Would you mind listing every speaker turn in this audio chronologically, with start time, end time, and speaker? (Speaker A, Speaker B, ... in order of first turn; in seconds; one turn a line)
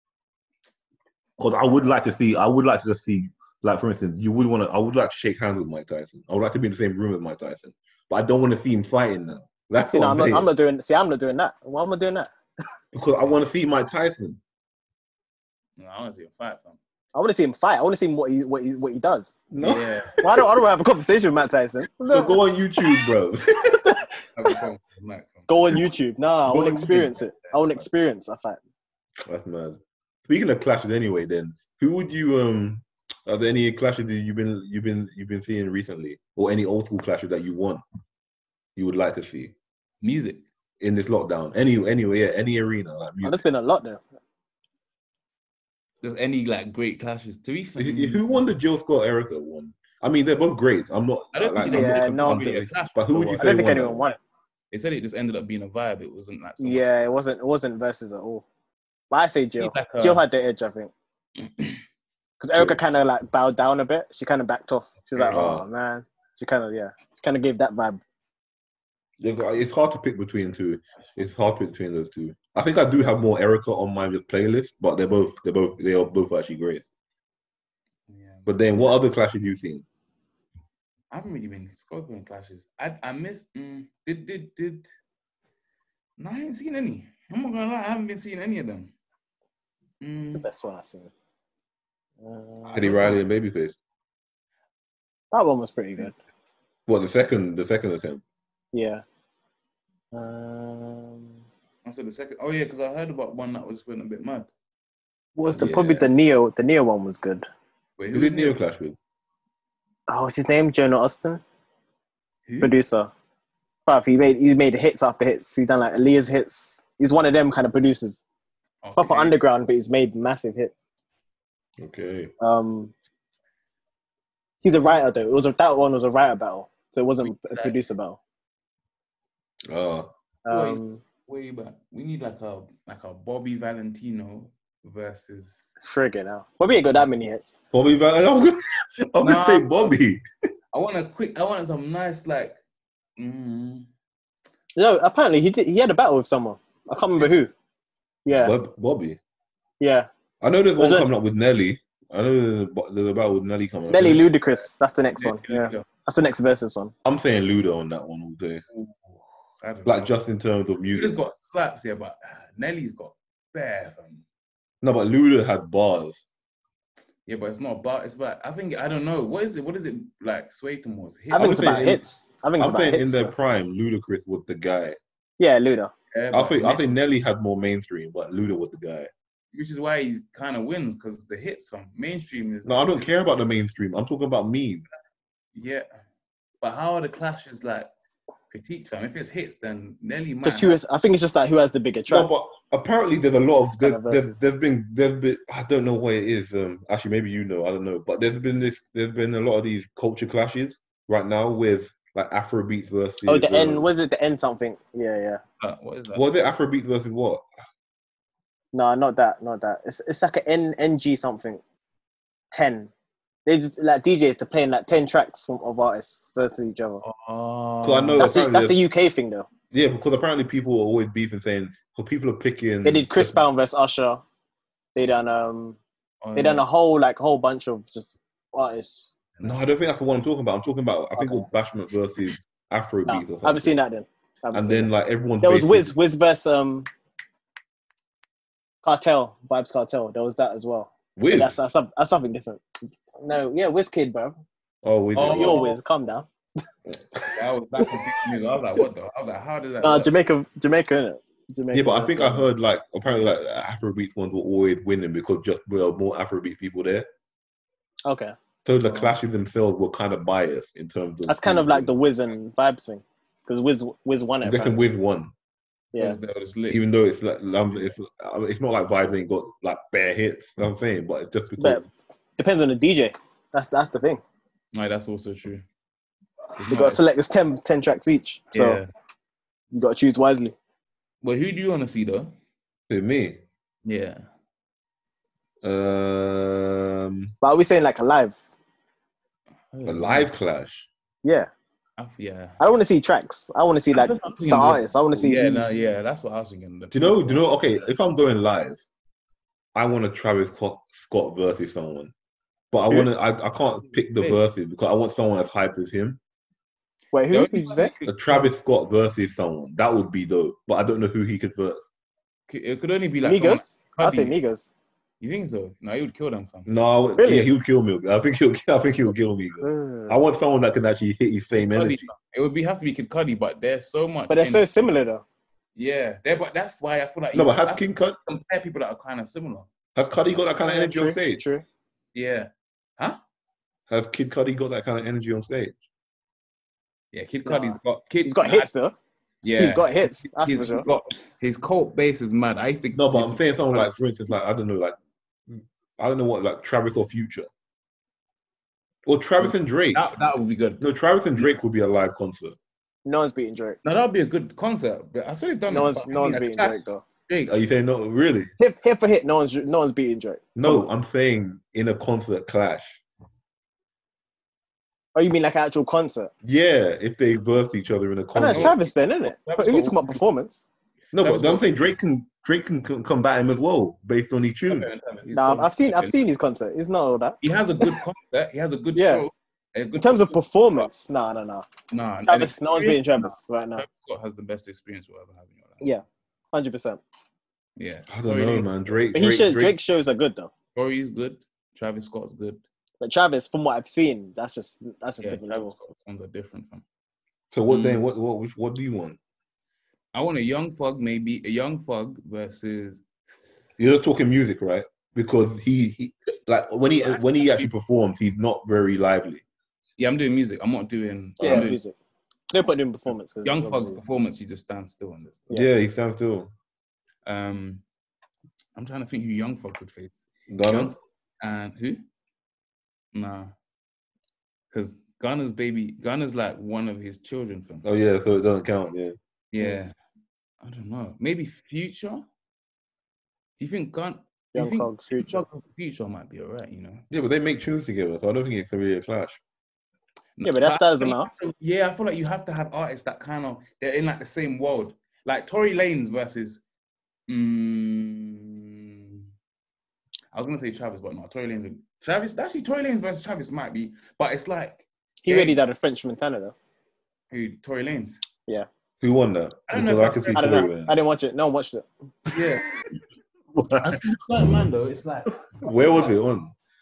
Speaker A: 1.4-10.5
Speaker B: 9.8-12.3
Speaker A: 12.9-14.4
Speaker C: 15.8-16.8
Speaker B: 17.1-19.4
Speaker A: 19.5-20.4
Speaker C: 19.6-20.2
Speaker B: 20.2-22.9
Speaker A: 22.1-23.9
Speaker B: 23.8-24.1
Speaker C: 24.3-25.7
Speaker B: 25.5-28.6
Speaker C: 26.5-27.9
Speaker A: 29.2-37.8
Speaker A: 38.8-39.5
Speaker C: 40.0-40.4
Speaker A: 40.8-43.4
Speaker B: 43.2-44.0
Speaker C: 46.0-48.5
Speaker A: 47.8-54.0
Speaker C: 51.3-53.6
Speaker B: 51.7-52.4
Speaker B: 53.4-54.2
Speaker C: 54.7-56.9
Speaker B: 56.6-58.4
Speaker B: 59.1-60.9
Speaker C: 59.6-60.2
Speaker B: 62.4-68.0
Speaker A: 65.3-65.6
Speaker A: 69.2-76.8
Speaker C: 78.1-78.6
Speaker A: 78.5-79.8
Speaker C: 81.1-84.9
Speaker C: 86.2-88.9
Speaker C: 90.0-90.4
Speaker B: 90.2-91.1
Speaker B: 92.2-92.9
Speaker A: 92.7-93.8
Speaker C: 92.7-93.2
Speaker B: 95.3-96.1
Speaker A: 96.9-98.2
Speaker B: 98.7-99.0
Speaker B: 100.1-101.4
Speaker C: 101.8-104.5
Speaker B: 105.3-107.5
Speaker A: 105.5-106.1
Speaker C: 108.0-108.6
Speaker A: 108.1-109.0
Speaker B: 110.1-111.4
Speaker C: 112.5-112.7
Speaker B: 112.6-113.1
Speaker B: 113.8-118.2
Speaker C: 118.8-119.4
Speaker B: 119.0-120.8
Speaker A: 121.8-122.3
Speaker B: 122.4-122.9
Speaker B: 124.6-128.2
Speaker C: 127.2-127.8
Speaker A: 129.7-130.1
Speaker B: 130.4-131.0
Speaker C: 130.5-135.7
Speaker B: 135.8-137.5
Speaker A: 137.7-140.2
Speaker C: 139.2-139.9
Speaker C: 140.7-142.6
Speaker C: 143.2-143.9
Speaker B: 144.8-147.5
Speaker B: 148.2-148.5
Speaker A: 148.3-149.2
Speaker B: 149.8-150.1
Speaker A: 150.4-154.2
Speaker B: 150.8-151.1
Speaker B: 153.9-156.9
Speaker C: 155.2-155.8
Speaker A: 157.0-158.6
Speaker C: 158.7-160.1
Speaker A: 159.8-161.1
Speaker C: 160.9-164.2
Speaker A: 164.8-166.2
Speaker C: 167.2-172.0
Speaker B: 171.3-173.3
Speaker A: 171.3-172.0
Speaker A: 172.6-175.0
Speaker B: 175.4-175.9
Speaker C: 176.1-176.8
Speaker A: 176.3-179.1
Speaker C: 179.5-183.1
Speaker A: 182.7-184.8
Speaker C: 185.5-185.9
Speaker C: 186.6-187.9
Speaker C: 188.5-190.8
Speaker B: 190.4-192.3
Speaker A: 192.1-203.8
Speaker B: 193.8-194.4
Speaker B: 203.2-205.4
Speaker C: 205.6-206.2
Speaker A: 206.1-207.5
Speaker B: 208.7-211.6
Speaker B: 212.5-212.9
Speaker B: 213.4-217.0
Speaker C: 217.0-218.3
Speaker A: 217.8-218.8
Speaker B: 218.2-219.5
Speaker A: 219.7-223.4
Speaker B: 222.8-224.2
Speaker B: 224.9-225.8
Speaker C: 226.2-226.6
Speaker B: 226.3-229.1
Speaker C: 229.4-229.7
Speaker A: 229.4-233.7
Speaker B: 231.2-231.4
Speaker B: 233.1-234.9
Speaker A: 234.5-235.9
Speaker B: 235.4-236.9
Speaker B: 238.8-244.4
Speaker A: 241.2-241.6
Speaker A: 244.8-245.6
Speaker C: 245.1-245.8
Speaker B: 245.2-246.3
Speaker A: 246.9-247.4
Speaker C: 247.3-250.1
Speaker B: 249.8-252.5
Speaker A: 251.7-257.1
Speaker B: 258.1-258.3
Speaker A: 258.6-261.9
Speaker C: 258.8-259.2
Speaker B: 261.3-264.9
Speaker A: 264.4-265.3
Speaker C: 265.9-266.8
Speaker A: 266.7-271.9
Speaker B: 271.6-271.8
Speaker B: 272.4-274.2
Speaker C: 274.7-275.6
Speaker C: 276.6-277.0
Speaker B: 276.6-278.8
Speaker C: 278.5-278.9
Speaker B: 279.7-280.5
Speaker C: 281.2-282.3
Speaker A: 282.9-283.4
Speaker C: 283.8-284.2
Speaker A: 285.6-287.3
Speaker B: 287.4-288.4
Speaker C: 289.7-290.3
Speaker A: 289.9-290.9
Speaker B: 291.2-291.5
Speaker C: 292.0-292.6
Speaker B: 292.6-295.7
Speaker C: 293.9-297.6
Speaker A: 296.9-298.8
Speaker A: 299.7-302.1
Speaker A: 302.7-306.2
Speaker B: 307.1-307.9
Speaker C: 307.3-308.5
Speaker A: 308.1-311.9
Speaker C: 312.5-314.3
Speaker B: 313.2-314.7
Speaker C: 315.2-316.7
Speaker A: 316.7-322.1
Speaker B: 317.2-317.5
Speaker B: 319.6-320.1
Speaker C: 321.5-324.8
Speaker B: 324.3-325.2
Speaker C: 325.8-329.7
Speaker A: 327.3-328.2
Speaker A: 329.9-331.4
Speaker B: 330.6-331.6
Speaker C: 332.1-333.2
Speaker A: 333.9-335.8
Speaker C: 337.1-338.7
Speaker B: 337.4-338.9
Speaker C: 339.4-343.9
Speaker B: 339.6-340.9
Speaker A: 342.9-344.9
Speaker A: 345.5-347.5
Speaker A: 349.1-350.0
Speaker C: 349.4-350.8
Speaker A: 350.8-352.6
Speaker B: 353.1-353.8
Speaker C: 353.8-357.5
Speaker B: 355.7-357.0
Speaker A: 357.5-358.5
Speaker B: 358.6-360.9
Speaker A: 360.5-363.0
Speaker B: 365.1-366.3
Speaker A: 366.4-368.7
Speaker B: 368.3-370.7
Speaker C: 368.4-370.2
Speaker C: 371.1-371.9
Speaker A: 371.1-374.9
Speaker C: 374.7-376.2
Speaker B: 375.3-378.0
Speaker C: 377.4-380.9
Speaker B: 378.9-379.2
Speaker B: 380.0-381.6
Speaker C: 381.9-385.8
Speaker B: 382.3-383.8
Speaker B: 385.8-387.0
Speaker C: 387.8-389.0
Speaker A: 388.1-389.7
Speaker B: 389.1-390.5
Speaker C: 390.7-392.6
Speaker B: 393.0-395.7
Speaker C: 395.2-396.8
Speaker A: 397.5-399.2
Speaker C: 397.7-398.1
Speaker C: 400.1-403.0
Speaker A: 403.8-409.4
Speaker C: 407.0-407.7
Speaker C: 410.0-411.8
Speaker B: 411.4-411.9
Speaker A: 411.4-411.7
Speaker B: 412.5-414.0
Speaker C: 413.4-415.5
Speaker A: 415.5-416.5
Speaker C: 417.2-417.8
Speaker C: 418.7-422.0
Speaker A: 420.5-420.9
Speaker C: 423.1-423.5
Speaker C: 424.7-427.8
Speaker A: 427.8-429.1
Speaker C: 429.5-429.9
Speaker C: 430.6-432.2
Speaker C: 433.6-437.0
Speaker B: 434.5-435.4
Speaker A: 437.1-439.4
Speaker C: 440.4-446.6
Speaker B: 440.4-441.3
Speaker C: 447.3-449.2
Speaker C: 450.3-455.6
Speaker B: 455.2-456.5
Speaker C: 457.3-458.2
Speaker A: 459.0-460.9
Speaker C: 459.7-460.6
Speaker B: 460.3-461.9
Speaker C: 462.3-462.7
Speaker A: 463.5-464.1
Speaker C: 463.8-466.1
Speaker A: 465.5-466.5